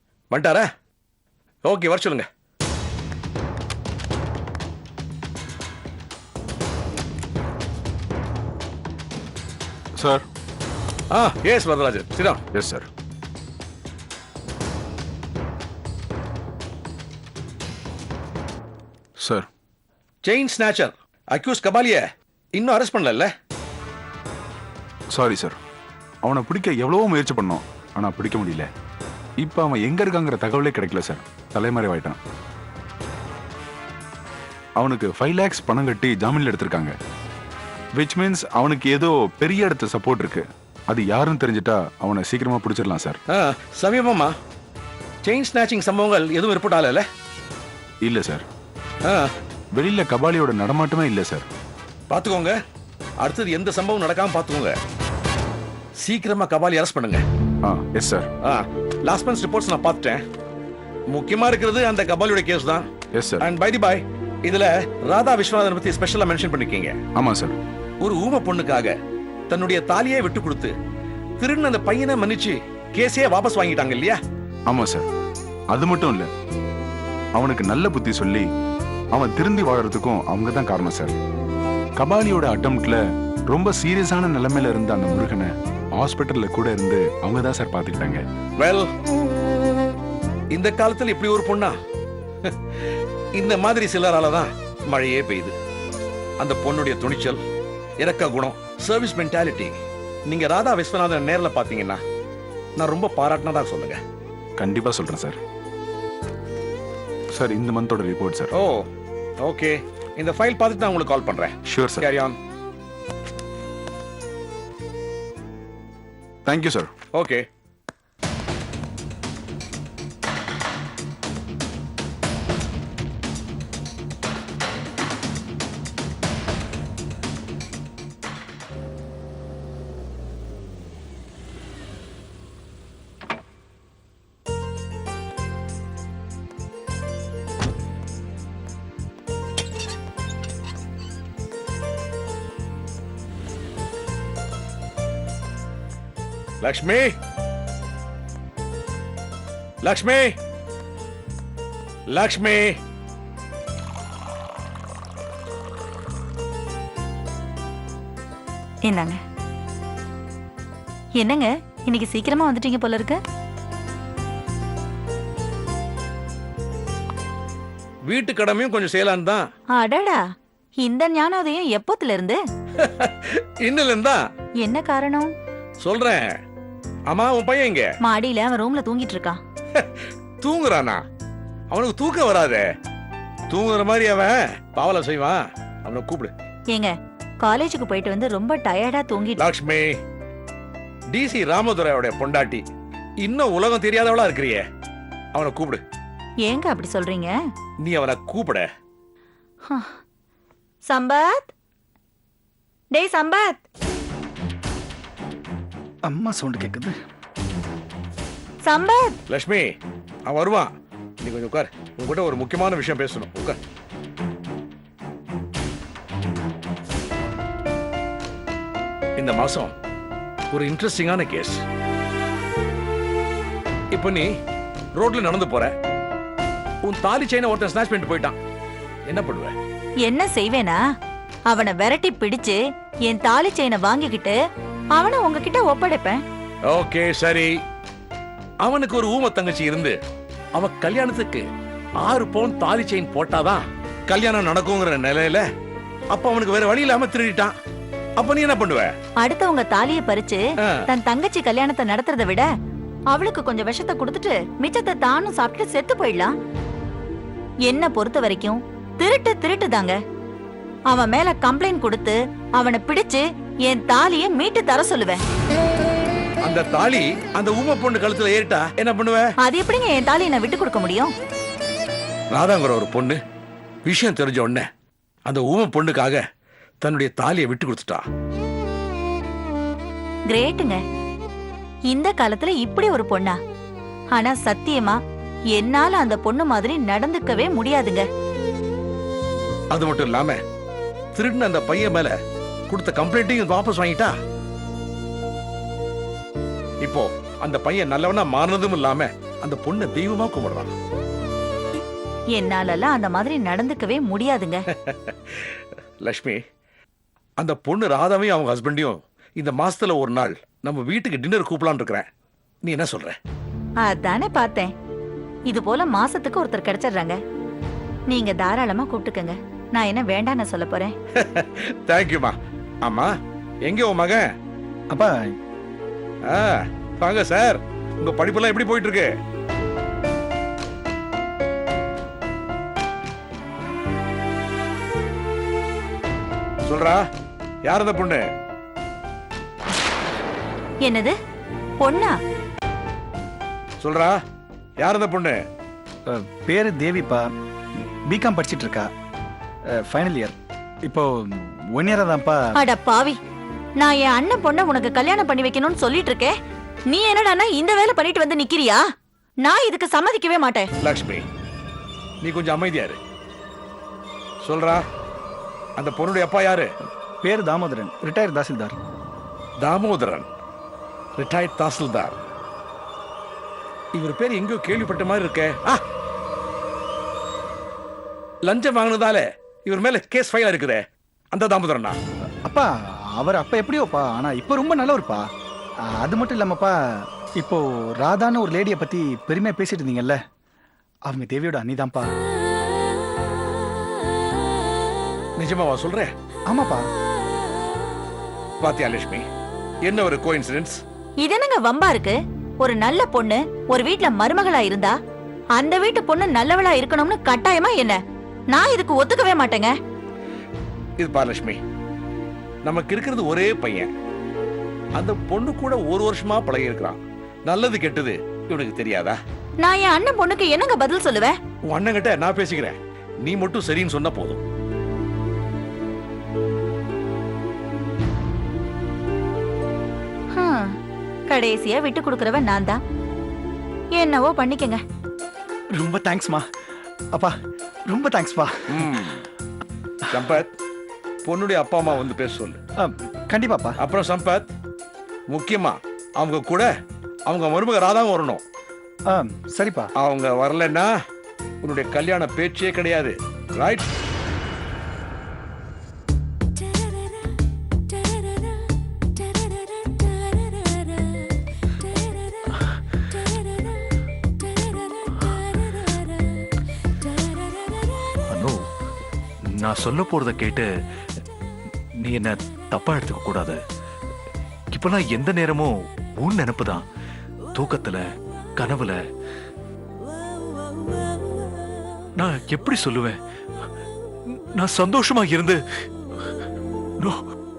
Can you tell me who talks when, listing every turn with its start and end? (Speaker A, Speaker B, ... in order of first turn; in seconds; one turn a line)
Speaker A: 0.3-0.7
Speaker A: 1.7-2.3
Speaker B: 10.0-10.2
Speaker A: 11.1-12.4
Speaker B: 12.5-12.9
Speaker B: 19.2-19.5
Speaker A: 20.2-22.0
Speaker A: 22.6-23.3
Speaker B: 25.1-25.6
Speaker B: 26.2-28.7
Speaker B: 29.4-32.2
Speaker B: 34.8-36.9
Speaker B: 38.0-43.2
Speaker A: 43.3-44.3
Speaker A: 45.2-47.0
Speaker B: 48.0-48.4
Speaker B: 49.7-51.5
Speaker A: 52.1-52.6
Speaker A: 53.2-54.8
Speaker A: 56.0-57.2
Speaker B: 57.6-58.3
Speaker A: 58.5-60.2
Speaker A: 61.1-62.9
Speaker B: 63.1-63.4
Speaker A: 63.4-67.0
Speaker B: 67.2-67.6
Speaker A: 68.0-69.0
Speaker A: 69.5-70.7
Speaker A: 71.4-74.2
Speaker B: 74.7-75.1
Speaker B: 75.7-76.3
Speaker B: 77.3-78.5
Speaker B: 79.1-81.2
Speaker B: 82.0-88.2
Speaker A: 88.6-88.9
Speaker A: 90.5-91.8
Speaker A: 93.4-95.5
Speaker A: 96.4-97.4
Speaker A: 98.0-102.0
Speaker A: 102.8-104.0
Speaker B: 104.6-105.4
Speaker B: 107.3-108.5
Speaker A: 108.5-108.8
Speaker A: 109.4-112.3
Speaker B: 111.7-112.1
Speaker B: 116.5-116.9
Speaker A: 117.2-117.4
Speaker A: 146.6-147.2
Speaker A: 149.8-150.4
Speaker A: 152.1-152.8
Speaker C: 158.8-159.2
Speaker C: 161.2-163.2
Speaker A: 168.1-169.4
Speaker C: 169.8-170.2
Speaker C: 170.8-172.4
Speaker A: 172.8-174.2
Speaker C: 174.6-175.3
Speaker A: 175.8-176.3
Speaker A: 177.1-177.9
Speaker C: 178.0-179.4
Speaker A: 179.8-181.0
Speaker A: 181.7-182.7
Speaker A: 183.5-186.3
Speaker C: 186.7-189.4
Speaker A: 189.4-189.9
Speaker A: 191.1-192.7
Speaker A: 193.2-194.6
Speaker A: 195.3-195.8
Speaker C: 196.4-197.3
Speaker A: 197.8-198.7
Speaker C: 200.9-201.5
Speaker C: 202.9-203.6
Speaker D: 206.1-206.9
Speaker C: 208.7-209.2
Speaker A: 209.3-209.7
Speaker A: 210.3-210.7
Speaker A: 211.2-213.6
Speaker A: 219.2-219.7
Speaker A: 220.5-221.6
Speaker A: 223.9-224.3
Speaker A: 225.0-225.7
Speaker A: 226.8-228.4
Speaker A: 229.1-229.5
Speaker C: 230.0-230.8
Speaker C: 231.5-234.4
Speaker C: 234.9-236.2
Speaker A: 236.7-237.5
Speaker A: 238.6-239.9
Speaker A: 240.6-241.5
Speaker A: 242.1-245.4
Speaker A: 246.1-247.5
Speaker A: 248.2-248.9
Speaker C: 249.2-252.5
Speaker C: 253.1-256.4
Speaker C: 257.7-260.0
Speaker C: 260.9-265.2
Speaker A: 266.4-269.2
Speaker C: 269.4-271.1
Speaker A: 272.3-273.2
Speaker A: 273.9-274.7
Speaker A: 275.3-276.2
Speaker A: 276.8-278.0
Speaker C: 280.3-280.8
Speaker C: 281.9-283.4
Speaker C: 284.1-285.0
Speaker C: 285.6-288.0
Speaker A: 289.7-290.4
Speaker A: 291.1-292.1
Speaker A: 292.7-294.1
Speaker A: 296.8-300.7
Speaker C: 302.3-304.6
Speaker A: 304.8-306.4
Speaker A: 307.4-312.1
Speaker A: 312.6-313.1
Speaker C: 313.9-314.7
Speaker C: 315.5-317.2
Speaker C: 318.1-320.9
Speaker A: 321.2-323.1
Speaker A: 323.7-324.3
Speaker A: 326.3-329.1
Speaker A: 336.7-337.0
Speaker A: 337.7-338.2
Speaker C: 340.9-341.1
Speaker C: 341.8-342.1
Speaker A: 343.8-344.2
Speaker A: 344.8-345.4
Speaker D: 346.1-347.2
Speaker D: 348.1-348.9
Speaker D: 349.9-350.4
Speaker D: 350.9-352.4
Speaker C: 352.6-353.2
Speaker C: 353.8-356.3
Speaker C: 356.9-358.8
Speaker C: 359.4-360.7
Speaker A: 360.8-361.2
Speaker A: 362.2-363.0
Speaker A: 364.4-364.8
Speaker A: 365.8-366.7
Speaker D: 367.2-368.8
Speaker A: 369.6-370.3
Speaker A: 371.2-372.2
Speaker A: 374.0-375.8
Speaker A: 378.4-382.0
Speaker D: 382.5-385.2
Speaker D: 385.9-386.7
Speaker D: 387.4-390.2
Speaker D: 391.1-392.1
Speaker A: 395.4-396.1
Speaker D: 396.5-396.9
Speaker A: 398.6-399.2
Speaker A: 399.9-400.8
Speaker C: 401.2-404.9
Speaker C: 405.6-408.0
Speaker C: 408.5-409.7
Speaker A: 411.0-411.6
Speaker A: 412.7-413.9
Speaker A: 415.0-419.2
Speaker C: 419.6-421.4
Speaker A: 421.7-424.4
Speaker C: 430.3-430.7
Speaker C: 431.3-432.8
Speaker C: 434.0-434.8
Speaker D: 435.8-436.4
Speaker D: 437.9-438.9
Speaker A: 438.7-439.2
Speaker A: 440.1-440.5
Speaker A: 441.2-442.6
Speaker D: 442.8-443.8
Speaker A: 443.8-444.5
Speaker A: 445.3-446.7
Speaker A: 447.3-448.4
Speaker D: 449.1-449.9
Speaker A: 450.0-450.9
Speaker A: 451.6-453.9
Speaker E: 468.3-468.6
Speaker E: 469.5-470.7
Speaker E: 472.0-473.6
Speaker E: 474.7-476.8
Speaker E: 477.5-478.1
Speaker E: 478.6-479.0
Speaker E: 482.2-483.2
Speaker E: 484.3-485.6